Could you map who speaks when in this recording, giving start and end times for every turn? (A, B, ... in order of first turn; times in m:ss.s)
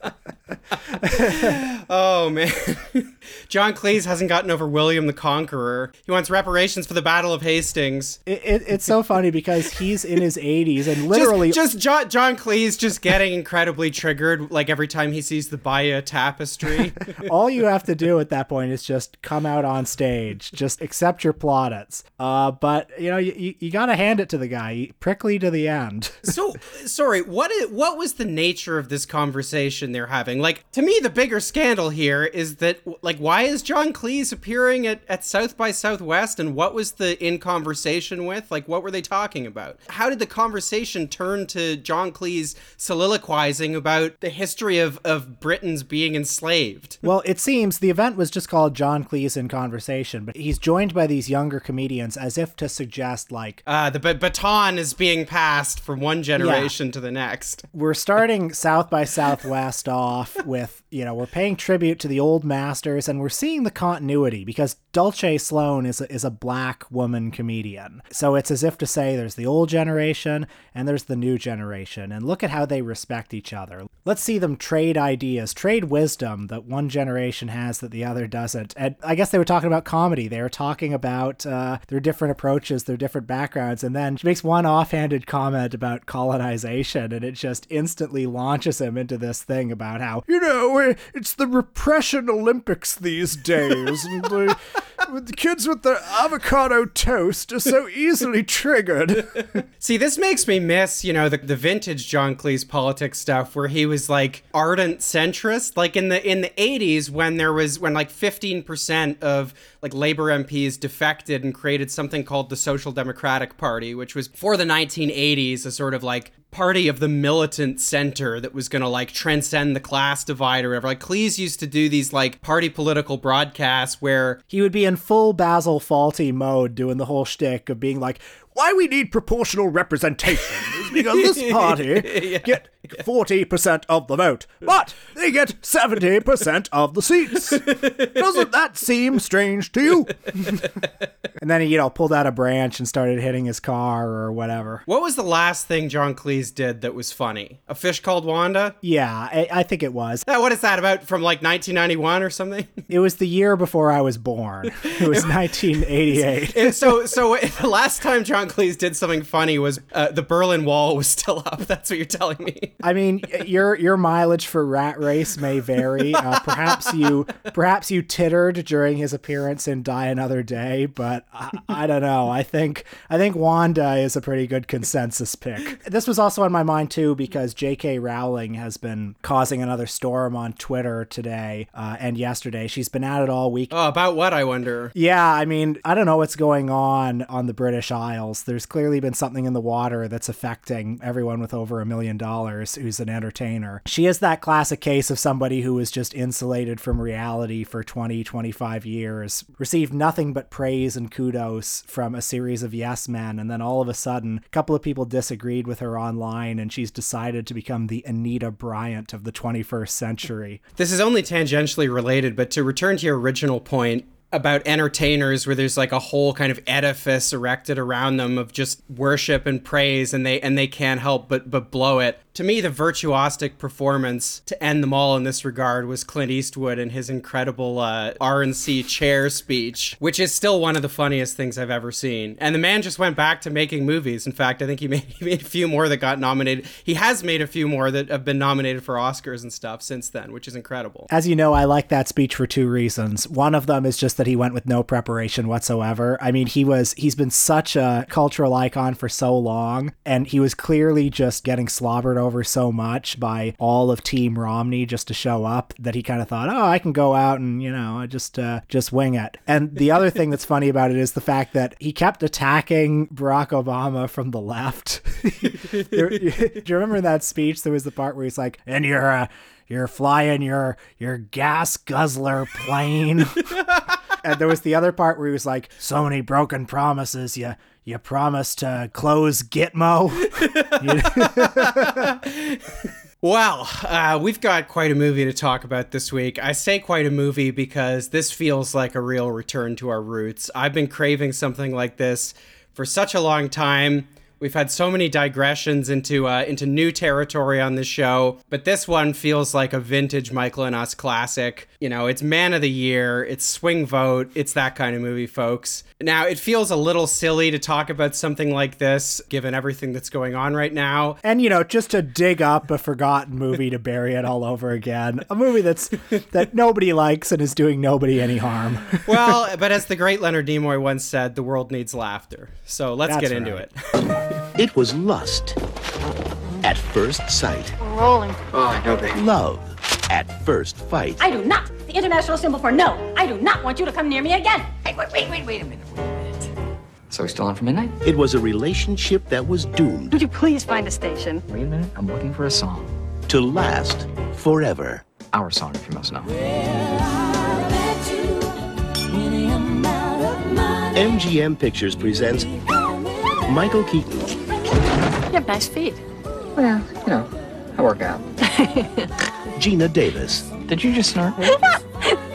0:01.0-0:08.2 A
0:01.0-0:01.5 B
0:08.2-0:11.6 B
0:11.1-0:17.1 A
0:17.1-0:26.3 B
0:26.2-0:47.0 A
0:47.0-0:53.6 B
0:53.6-0:57.6 A
0:56.4-0:56.7 B
0:57.7-1:39.6 B
1:39.8-2:04.4 A
2:04.5-2:20.8 B
2:10.9-2:12.6 A
2:17.7-2:18.1 A
2:21.4-2:24.8 B
2:24.9-2:28.8 A
2:28.8-2:30.2 B
2:30.2-2:32.8 A
2:32.9-2:36.9 B
2:35.0-2:42.8 A
2:42.8-3:03.7 B
2:46.1-2:47.0 A
3:03.7-3:04.9 A
3:04.9-3:30.6 B
3:30.8-4:01.1 A
4:01.1-4:33.6 B
4:34.2-4:42.1 B
4:40.4-5:11.2 A
5:11.2-5:19.4 B
5:19.0-5:24.1 A
5:23.0-5:23.6 B
5:24.6-5:25.6 C
5:26.6-5:27.8 C
5:27.8-5:28.4 D
5:28.5-5:29.2 E
5:29.1-5:31.2 C
5:31.2-5:35.6 D
5:35.5-5:36.2 E
5:37.1-5:38.0 E
5:38.0-5:40.2 C
5:40.1-5:41.4 D
5:41.5-5:42.9 E
5:43.3-5:45.0 C
5:45.3-5:46.4 E
5:50.9-5:52.5 C
5:53.4-5:54.3 C
5:55.3-5:56.0 D
5:56.6-5:58.2 E
5:59.6-6:00.5 C
6:00.6-6:01.6 E